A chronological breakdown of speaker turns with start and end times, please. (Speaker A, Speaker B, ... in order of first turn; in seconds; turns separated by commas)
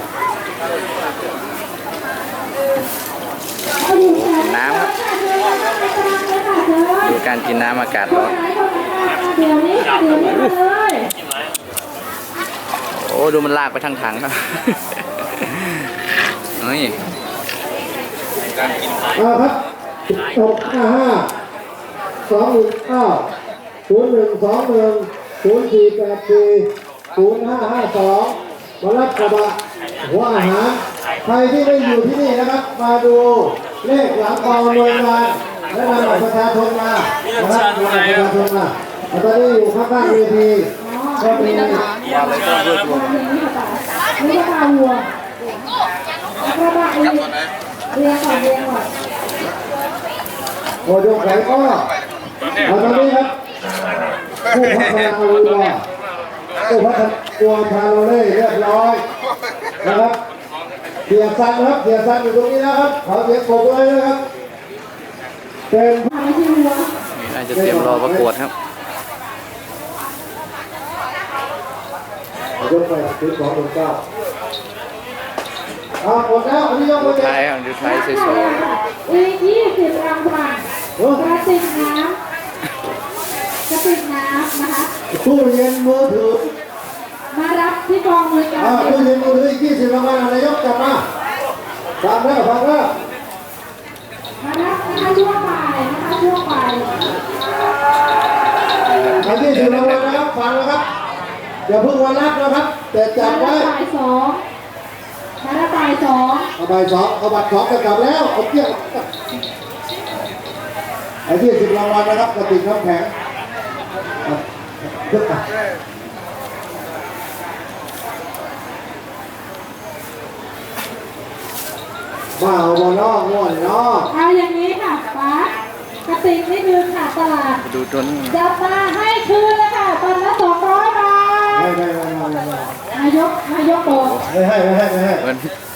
Speaker A: 3.8-7.2, Speaker B: 4.0-4.9, Speaker B: 7.0-8.4, Speaker A: 8.1-11.1, Speaker B: 12.9-15.9, Speaker B: 16.5-17.0, Speaker C: 19.1-19.6, Speaker C: 20.1-21.3, Speaker C: 22.3-23.3, Speaker C: 23.9-41.9, Speaker A: 40.8-45.1, Speaker B: 42.1-42.8, Speaker A: 46.4-47.3, Speaker A: 47.9-48.9, Speaker C: 50.8-51.9, Speaker C: 52.6-53.3, Speaker C: 54.5-55.8, Speaker C: 56.6-59.0, Speaker C: 59.8-60.1, Speaker C: 61.1-64.2, Speaker C: 65.7-66.1, Speaker A: 66.1-66.9, Speaker B: 67.1-68.5, Speaker C: 67.5-68.3, Speaker C: 72.6-74.0, Speaker C: 76.0-77.4, Speaker B: 77.0-78.6, Speaker A: 77.8-80.6, Speaker C: 81.0-81.3, Speaker A: 81.1-82.2, Speaker A: 83.7-84.9, Speaker C: 85.1-86.5, Speaker A: 87.3-89.0, Speaker C: 88.6-91.0, Speaker C: 92.0-92.9, Speaker A: 94.4-96.9, Speaker B: 98.8-100.2, Speaker C: 99.2-100.8, Speaker C: 101.7-103.7, Speaker A: 103.2-104.4, Speaker A: 105.4-106.5, Speaker C: 106.5-109.1, Speaker C: 111.2-113.1, Speaker C: 114.2-115.4, Speaker C: 122.4-124.1, Speaker A: 124.1-125.5, Speaker A: 126.0-127.6, Speaker B: 127.6-128.4, Speaker A: 128.3-131.7, Speaker C: 131.5-132.7, Speaker A: 132.9-134.2, Speaker B: 133.9-134.3, Speaker C: 134.3-135.2, Speaker B: 135.2-135.5